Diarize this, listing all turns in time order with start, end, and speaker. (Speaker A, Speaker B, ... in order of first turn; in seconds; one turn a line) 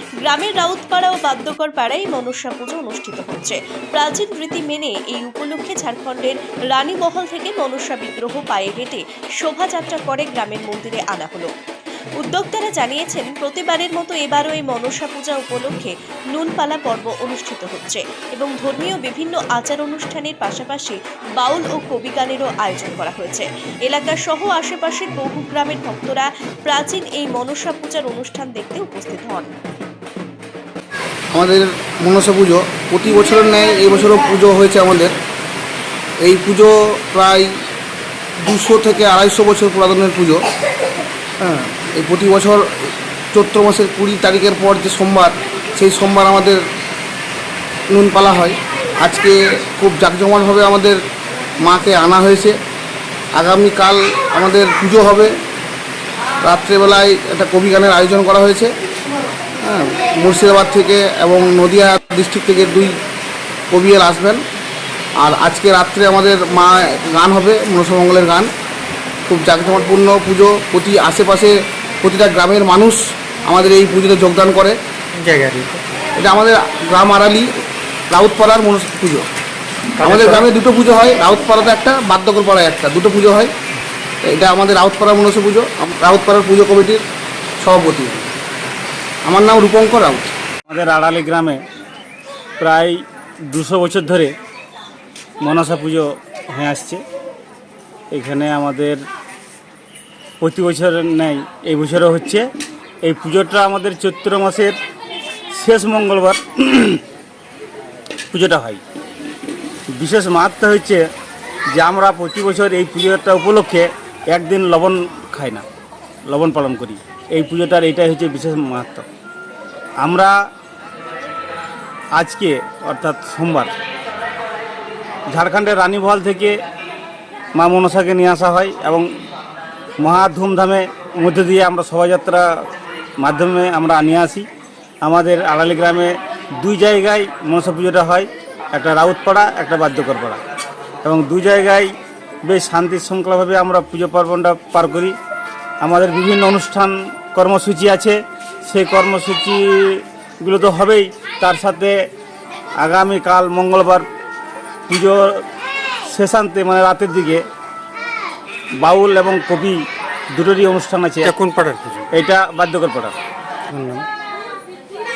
Speaker A: 0.2-11.5
Speaker A: 12.2-29.5
Speaker B: 31.3-35.1
Speaker B: 36.2-37.5
Speaker B: 38.4-40.4
Speaker B: 41.4-46.6
Speaker B: 47.9-51.0
Speaker B: 51.6-52.6
Speaker B: 53.4-55.3
Speaker B: 56.4-58.7
Speaker B: 59.6-62.9
Speaker B: 63.7-64.4
Speaker B: 65.2-68.5
Speaker B: 69.3-74.8
Speaker C: 75.2-75.8
Speaker B: 76.2-77.5
Speaker B: 78.1-79.2
Speaker C: 80.0-80.4
Speaker B: 80.0-83.5
Speaker B: 84.2-87.0
Speaker B: 87.6-88.3
Speaker B: 89.2-90.3
Speaker D: 90.7-91.6
Speaker D: 92.6-94.3
Speaker D: 95.4-97.0
Speaker D: 98.1-99.0
Speaker D: 100.4-102.5
Speaker D: 103.0-104.8
Speaker D: 105.5-107.0
Speaker D: 108.3-108.8
Speaker D: 110.0-111.0
Speaker D: 111.7-115.7
Speaker D: 116.3-119.1
Speaker D: 120.0-120.3
Speaker D: 122.2-123.7
Speaker D: 125.3-126.6
Speaker D: 127.6-129.1
Speaker D: 130.0-132.5
Speaker D: 133.2-134.5
Speaker D: 135.0-140.4
Speaker D: 141.0-141.9
Speaker D: 142.5-145.2
Speaker D: 145.8-151.9
Speaker D: 152.8-154.1
Speaker D: 154.9-155.4
Speaker D: 156.1-157.4
Speaker D: 158.8-159.8
Speaker D: 160.3-161.3
Speaker C: 161.2-162.1
Speaker D: 162.1-163.2
Speaker C: 163.7-164.1